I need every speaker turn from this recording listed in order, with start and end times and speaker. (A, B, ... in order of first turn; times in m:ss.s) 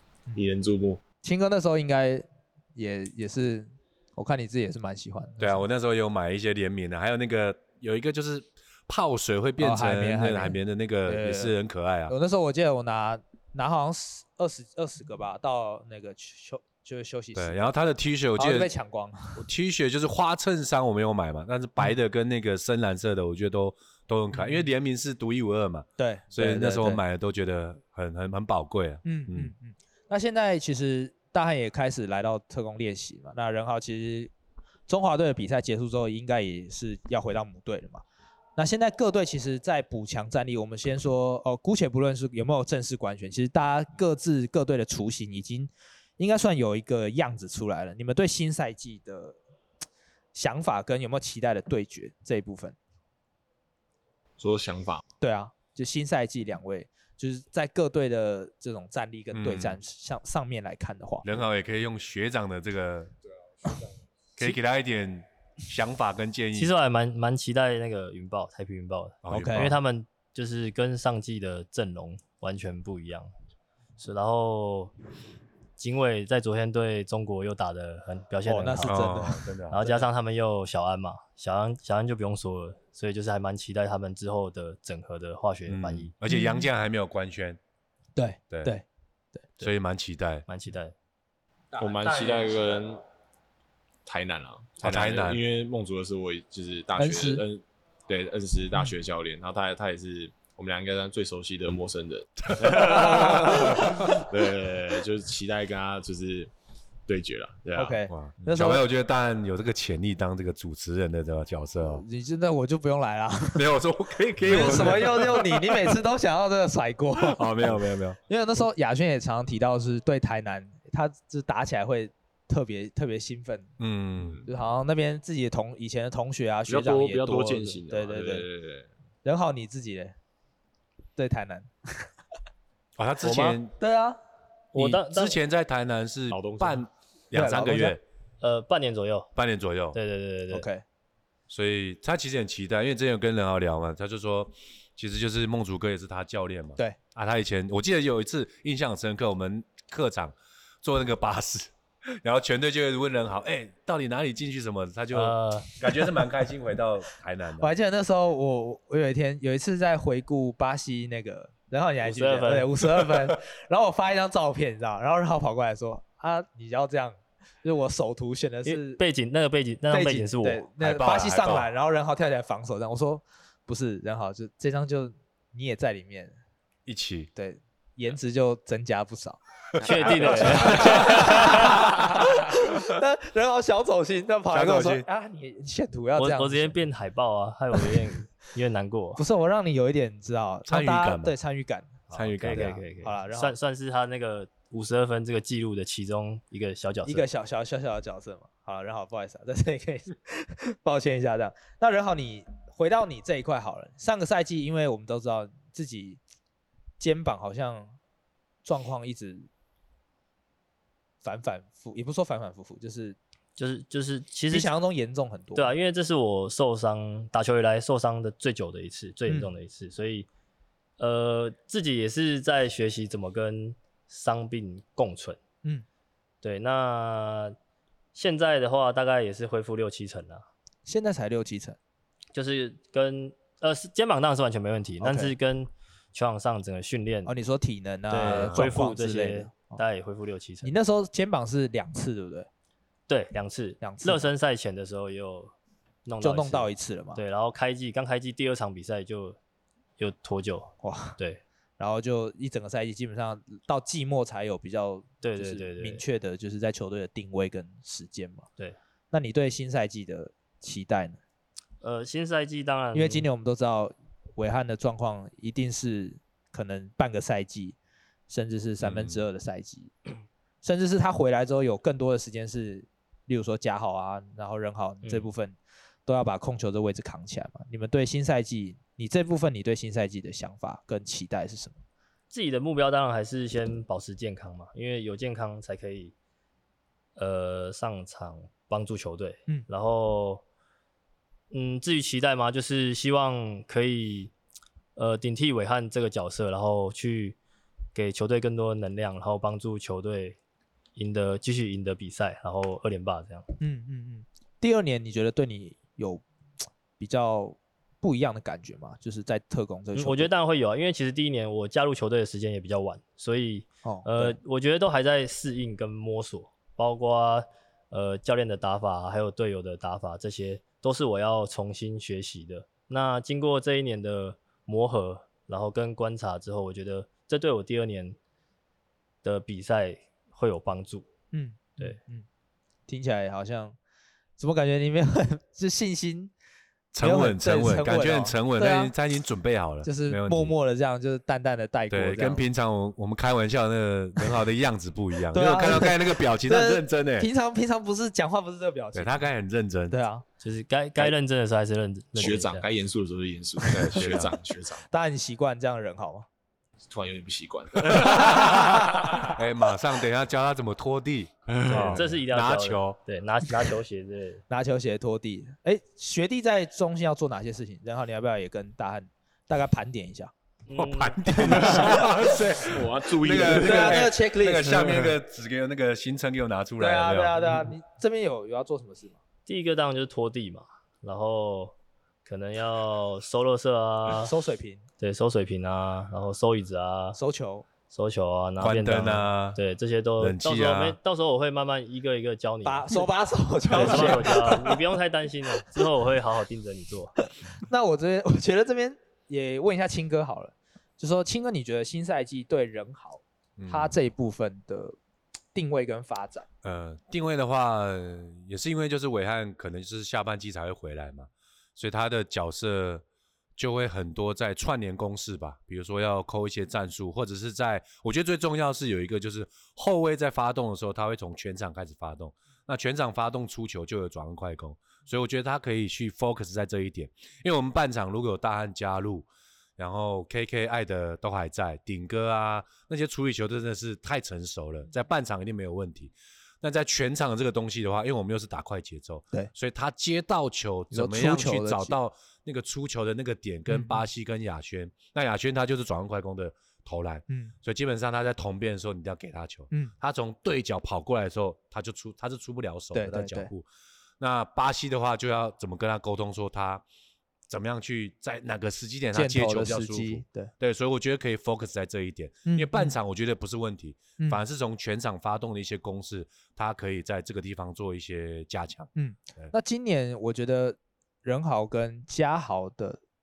0:00.4-0:01.0 A
0:01.2-0:05.6 B
0:05.4-0:12.1 C
0:09.6-0:11.5 B
0:12.1-0:17.7 B
0:17.4-0:18.7 C
0:18.4-0:19.4 B
0:19.4-0:29.5 C
0:24.3-0:24.7 B
0:26.0-0:27.0 B
0:29.0-0:34.3 B
0:34.9-0:38.0 B
0:38.6-0:49.4 B
0:50.3-0:52.8 B
0:54.4-0:55.0 A
0:55.2-1:01.3 B
0:59.3-0:59.8 C
1:01.2-1:03.1 C
1:04.4-1:06.7 C
1:06.5-1:13.3 D
1:09.2-1:09.8 C
1:09.3-1:09.8 B
1:14.0-1:14.9 D
1:15.8-1:19.2 D
1:18.5-1:20.1 B
1:18.9-1:19.8 C
1:19.7-1:26.1 D
1:25.7-1:27.6 C
1:26.3-1:26.7 B
1:28.2-1:28.8 B
1:29.6-1:30.4 C
1:30.5-1:30.9 D
1:31.8-1:33.0 A
1:34.0-1:46.5 A
1:34.8-1:35.4 C
1:37.0-1:37.4 B
1:42.6-1:44.2 C
1:42.7-1:44.0 B
1:47.1-1:48.0 A
1:47.8-1:48.9 B
1:48.1-1:52.0 C
1:51.9-1:53.7 B
1:53.6-1:56.0 C
1:54.4-2:03.7 B
1:57.2-1:58.2 C
2:03.8-2:04.4 C
2:04.2-2:04.5 A
2:04.5-2:08.5 B
2:06.7-2:08.9 A
2:09.2-2:10.2 B
2:11.2-2:12.1 B
2:13.0-2:13.8 C
2:13.2-2:13.6 D
2:13.8-2:14.2 B
2:14.7-2:15.4 D
2:14.8-2:18.0 C
2:16.3-2:16.9 A
2:17.3-2:18.0 B
2:18.4-2:19.3 D
2:19.4-2:20.0 C
2:19.9-2:20.7 D
2:20.5-2:20.8 B
2:21.5-2:37.7 C
2:35.1-2:35.7 D
2:37.6-2:49.0 B
2:42.0-2:42.7 D
2:48.6-2:50.7 D
2:49.9-2:56.4 B
2:50.8-2:51.7 C
2:56.9-2:57.3 C
2:57.4-3:06.8 B
2:59.8-3:01.7 D
3:00.5-3:02.1 C
3:04.5-3:05.1 C
3:06.2-3:09.2 D
3:09.2-3:13.6 B
3:10.7-3:11.3 C
3:12.1-3:17.3 D
3:12.1-3:12.8 C
3:17.1-3:26.2 B
3:27.0-3:28.0 B
3:28.6-3:29.5 B
3:31.2-3:33.2 B
3:33.6-3:34.7 D
3:34.5-3:35.7 B
3:35.6-3:40.3 D
3:41.0-3:45.4 D
3:46.4-3:47.6 D
3:48.1-3:50.4 D
3:50.9-3:51.8 B
3:52.3-3:57.3 D
3:55.0-3:55.3 B
3:57.3-3:59.8 B
3:58.1-4:00.7 D
3:58.2-3:58.7 C
4:00.6-4:02.5 B
4:03.1-4:05.5 D
4:03.8-4:04.3 B
4:06.0-4:09.4 D
4:06.2-4:07.2 B
4:10.0-4:11.4 D
4:10.8-4:11.2 B
4:11.8-4:18.5 B
4:15.2-4:16.0 D
4:19.1-4:21.2 B
4:21.8-4:23.2 D
4:22.9-4:27.8 B
4:28.3-4:29.9 B
4:28.8-4:29.2 C
4:30.6-4:41.8 B
4:42.3-4:46.1 D
4:47.2-4:50.4 D
4:51.5-4:54.3 D
4:55.0-4:57.4 D
4:58.0-5:00.4 D
5:01.0-5:03.5 D
5:03.6-5:06.2 B
5:07.0-5:10.3 B
5:10.0-5:28.2 D
5:13.8-5:14.4 B
5:29.2-5:31.1 D
5:31.3-5:32.3 B
5:32.9-5:33.8 B
5:34.4-5:36.3 B
5:36.9-5:40.5 C
5:37.0-5:38.9 B
5:39.8-5:42.4 B
5:41.9-5:47.3 C
5:45.3-5:49.3 B
5:48.9-5:50.0 C
5:49.9-5:50.2 B
5:50.4-5:52.6 D
5:52.2-5:54.8 A
5:53.7-5:54.3 C
5:54.9-5:56.3 B
5:56.9-5:59.3 A
5:57.9-6:03.0 C
5:58.2-5:59.3 B
6:01.5-6:02.2 A
6:01.7-6:04.4 D
6:04.5-6:10.3 B
6:10.7-6:12.0 D
6:10.8-6:17.4 C
6:12.6-6:14.2 A
6:13.5-6:15.0 B
6:14.7-6:15.1 A
6:16.8-6:19.2 B
6:19.5-6:24.3 D
6:24.2-6:24.8 B
6:25.0-6:27.2 D
6:27.2-6:27.6 B
6:27.9-6:33.1 D
6:28.6-6:29.6 C
6:30.2-6:31.0 C
6:32.6-6:34.8 B
6:33.7-6:37.2 D
6:37.6-6:45.0 B
6:43.6-6:44.0 C
6:45.5-6:46.4 B
6:46.6-6:53.0 C
6:53.6-7:09.3 C
7:09.8-7:33.7 C
7:20.9-7:22.0 B
7:23.7-7:24.1 B
7:27.3-7:27.5 B
7:32.9-7:33.5 B
7:34.2-7:36.8 C
7:37.5-7:49.5 C
7:39.1-7:40.5 B
7:42.5-7:43.0 B
7:49.0-7:53.0 B